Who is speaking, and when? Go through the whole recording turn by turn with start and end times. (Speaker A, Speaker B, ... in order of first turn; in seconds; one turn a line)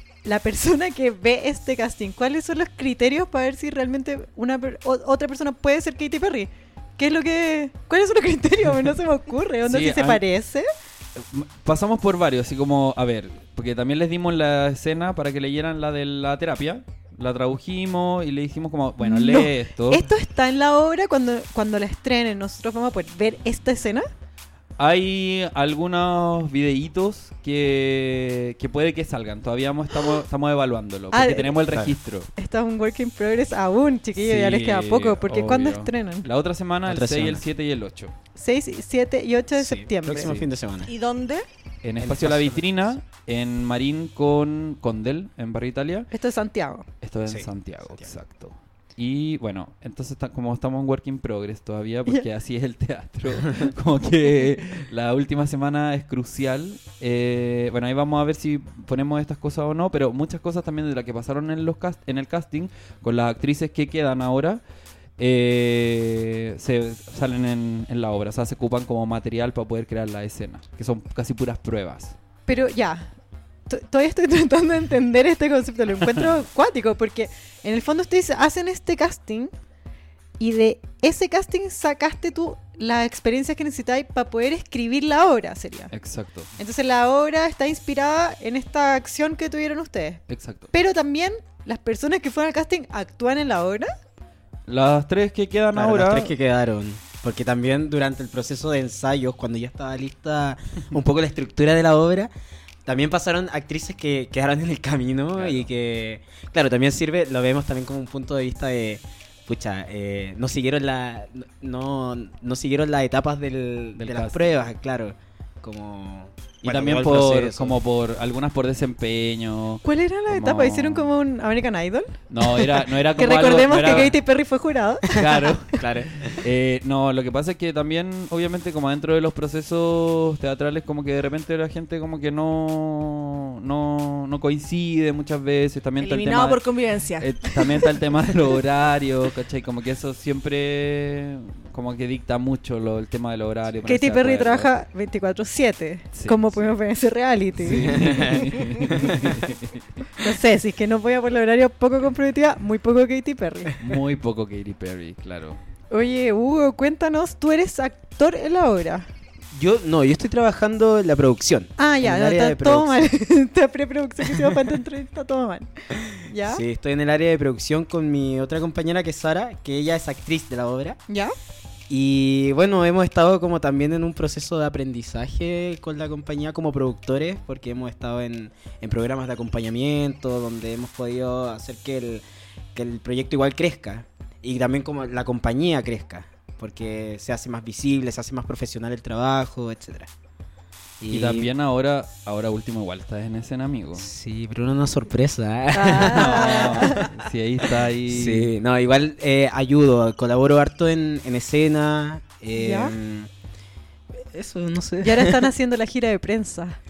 Speaker A: 0.2-10.7
Speaker B: 9.6-10.2
Speaker B: 11.2-20.1
Speaker A: 19.0-24.1
Speaker B: 24.8-32.3
Speaker A: 31.1-31.6
Speaker C: 31.6-32.0
Speaker A: 32.4-36.2
Speaker B: 34.1-38.1
Speaker C: 36.8-37.4
Speaker A: 38.4-40.4
Speaker C: 39.6-40.9
Speaker D: 40.9-41.5
Speaker B: 41.8-46.1
Speaker C: 42.0-42.7
Speaker A: 46.1-46.9
Speaker B: 47.0-64.6
Speaker C: 47.3-48.1
Speaker B: 65.2-72.2
Speaker A: 72.5-73.1
Speaker A: 73.7-79.5
Speaker A: 80.4-85.9
Speaker B: 85.9-86.5
Speaker A: 86.5-93.9
Speaker B: 90.3-90.7
Speaker B: 94.7-96.3
Speaker C: 95.7-102.3
Speaker C: 102.8-117.8
Speaker B: 105.3-105.7
Speaker B: 114.0-114.4
Speaker B: 116.6-121.1
Speaker A: 119.8-125.6
Speaker B: 122.3-124.2
Speaker B: 125.1-136.6
Speaker C: 125.7-126.3
Speaker D: 136.0-137.8
Speaker B: 137.2-144.7
Speaker A: 143.8-148.5
Speaker B: 146.1-146.6
Speaker B: 147.6-149.8
Speaker C: 147.8-149.4
Speaker A: 150.2-153.7
Speaker B: 153.8-155.6
Speaker A: 155.9-159.1
Speaker C: 159.5-163.1
Speaker A: 161.8-165.7
Speaker A: 166.2-166.6
Speaker C: 166.4-171.0
Speaker C: 171.9-190.1
Speaker C: 191.0-191.5
Speaker B: 191.1-194.1
Speaker C: 193.9-197.1
Speaker A: 195.7-197.0
Speaker B: 196.0-198.5
Speaker C: 197.6-203.3
Speaker A: 202.5-202.9
Speaker C: 204.1-205.5
Speaker A: 205.0-206.8